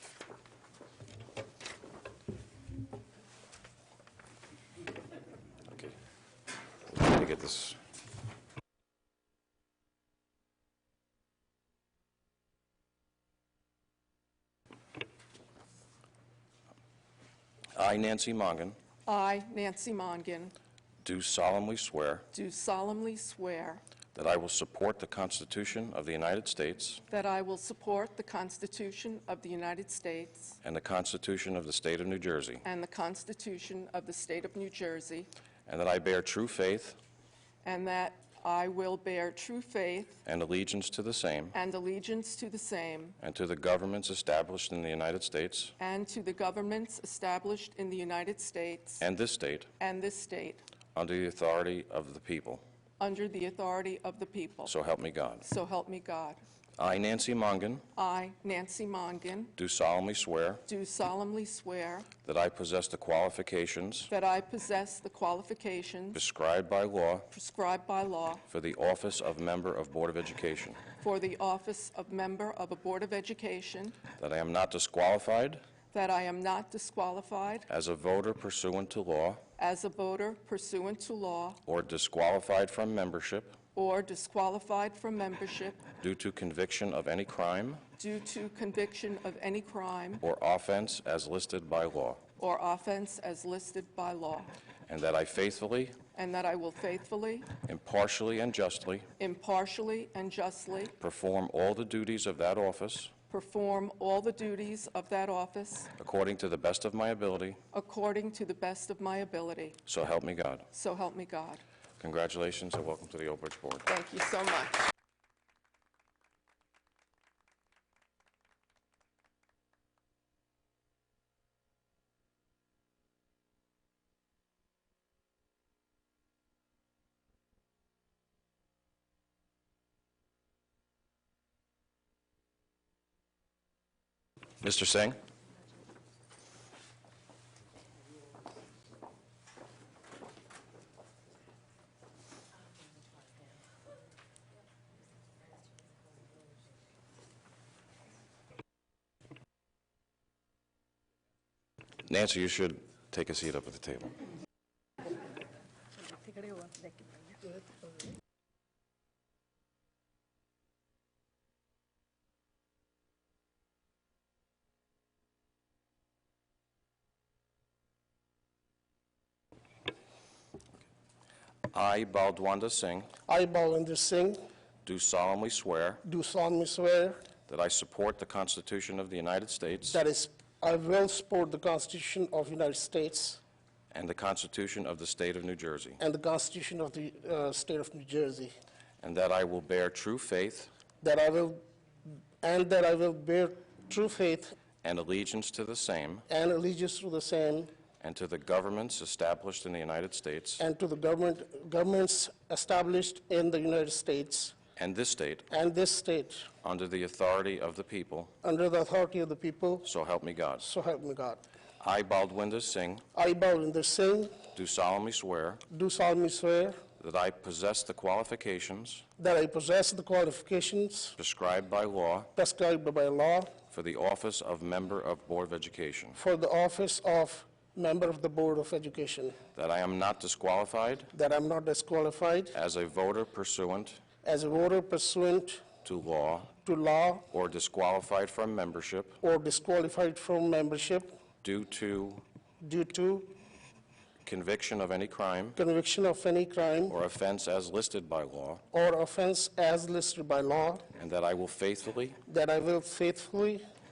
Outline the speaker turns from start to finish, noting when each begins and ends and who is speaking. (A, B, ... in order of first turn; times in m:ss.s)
0:05.7-0:06.0 A
0:06.9-0:07.8 A
0:17.8-0:18.8 A
0:19.1-0:20.5 B
0:21.0-0:22.2 A
0:22.3-0:23.8 B
0:24.1-0:27.0 A
0:27.1-0:30.6 B
0:30.6-0:32.6 A
0:32.6-0:35.3 B
0:35.7-0:37.0 A
0:37.6-0:40.2 B
0:40.2-0:41.6 A
0:41.5-0:43.2 B
0:43.2-0:45.8 A
0:45.8-0:49.0 B
0:49.0-0:49.7 A
0:49.8-0:50.6 B
0:51.0-0:52.6 A
0:53.0-0:54.7 B
0:54.7-0:55.5 A
0:55.4-0:56.4 B
0:56.8-0:57.8 A
0:58.0-0:59.5 B
0:59.6-1:00.6 A
1:00.7-1:02.1 B
1:02.2-1:04.1 A
1:04.1-1:06.2 B
1:06.1-1:07.3 A
1:07.3-1:08.4 B
1:08.5-1:10.8 A
1:11.0-1:14.0 B
1:14.2-1:15.6 A
1:15.9-1:17.7 B
1:17.7-1:19.4 A
1:19.6-1:21.6 B
1:21.7-1:23.6 A
1:23.8-1:25.8 B
1:26.0-1:27.8 A
1:28.0-1:30.2 B
1:30.2-1:32.2 A
1:32.4-1:34.5 B
1:34.9-1:36.0 A
1:36.2-1:37.5 B
1:37.6-1:39.1 A
1:39.2-1:40.9 B
1:41.0-1:43.1 A
1:43.3-1:45.9 B
1:46.0-1:47.6 A
1:47.7-1:49.8 B
1:49.9-1:50.7 A
1:50.7-1:51.6 B
1:52.0-1:53.9 A
1:53.9-1:54.8 B
2:14.6-2:15.2 A
2:32.0-2:34.1 A
2:51.7-2:53.1 A
2:53.3-2:54.4 C
2:54.8-2:56.0 A
2:56.0-2:57.2 C
2:57.5-3:00.0 A
2:59.9-3:03.4 C
3:03.9-3:06.0 A
3:06.0-3:08.5 C
3:09.0-3:10.7 A
3:11.0-3:11.6 C
3:12.4-3:14.6 C
3:14.8-3:16.3 A
3:16.3-3:17.7 C
3:18.0-3:20.6 A
3:20.6-3:24.6 C
3:24.8-3:25.5 A
3:25.5-3:26.5 C
3:26.6-3:28.3 A
3:28.4-3:29.9 C
3:29.8-3:30.7 A
3:30.6-3:31.4 C
3:31.8-3:33.0 A
3:33.2-3:34.4 C
3:34.6-3:35.6 A
3:35.7-3:36.8 C
3:37.0-3:39.0 A
3:39.2-3:41.2 C
3:41.2-3:42.3 A
3:42.4-3:43.5 C
3:43.7-3:46.2 A
3:46.2-3:49.4 C
3:49.6-3:51.1 A
3:51.1-3:52.6 C
3:52.5-3:54.0 A
3:54.2-3:55.6 C
3:55.8-3:56.5 A
3:56.6-3:57.3 C
3:57.3-3:59.2 A
3:59.2-4:01.1 C
4:01.4-4:02.2 A
4:02.6-4:03.4 C
4:04.2-4:05.6 A
4:05.6-4:07.0 C
4:06.9-4:08.6 A
4:08.7-4:10.8 C
4:11.0-4:12.2 A
4:12.3-4:13.6 C